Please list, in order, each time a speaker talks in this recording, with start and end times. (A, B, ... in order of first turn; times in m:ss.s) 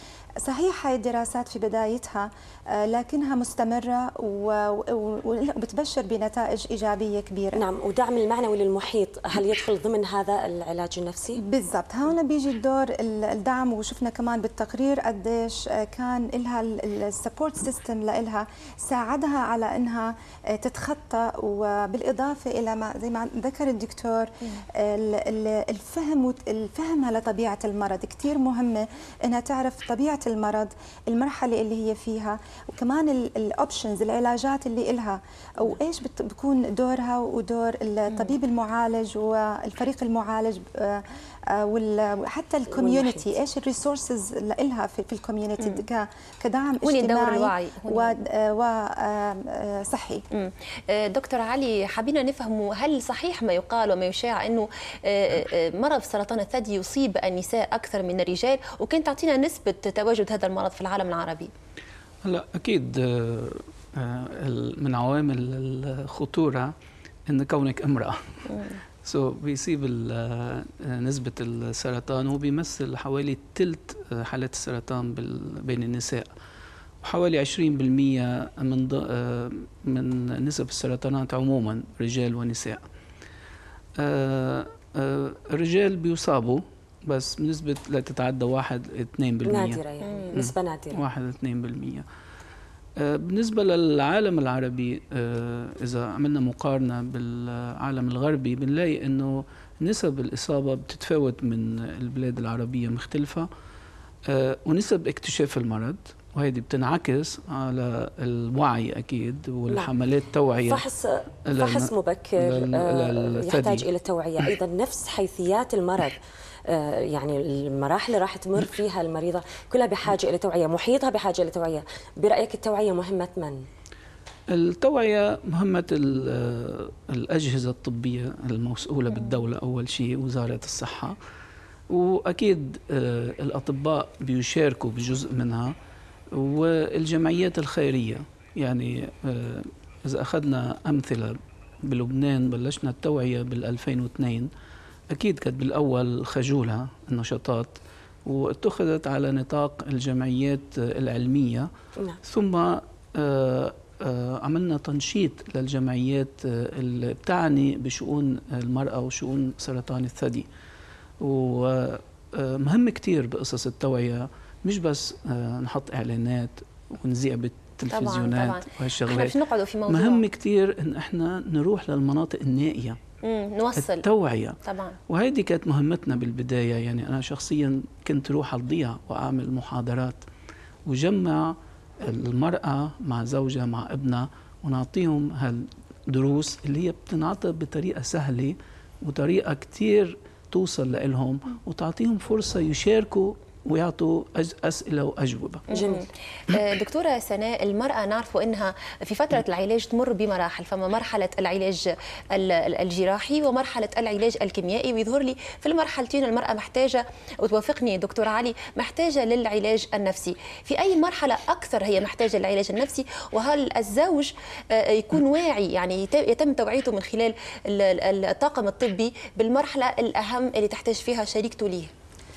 0:00.4-0:07.6 A
0:07.6-0:11.4 B
0:11.4-0:50.2 A
0:42.7-0:43.2 B
0:46.8-0:48.1 C
0:50.3-1:01.5 C
1:02.2-1:06.7 D
1:07.3-1:16.3 D
1:17.0-1:22.8 D
1:24.0-1:29.8 D
1:29.4-1:31.0 B
1:30.0-1:30.4 C
1:30.3-1:32.0 D
1:33.0-1:43.5 D
1:44.3-1:50.8 D
1:50.6-2:03.6 B
1:51.5-1:53.9 D
2:04.5-2:11.2 D
2:11.9-2:15.7 D
2:16.4-2:24.5 D
2:25.1-2:31.7 D
2:32.2-2:40.5 D
2:41.2-2:53.0 D
2:47.9-2:50.2 C
2:53.2-2:54.0 C
2:53.8-2:54.6 D
2:54.6-2:55.0 C
2:55.1-3:00.2 D
3:00.9-3:15.6 D
3:15.7-3:41.9 C
3:15.7-3:16.1 B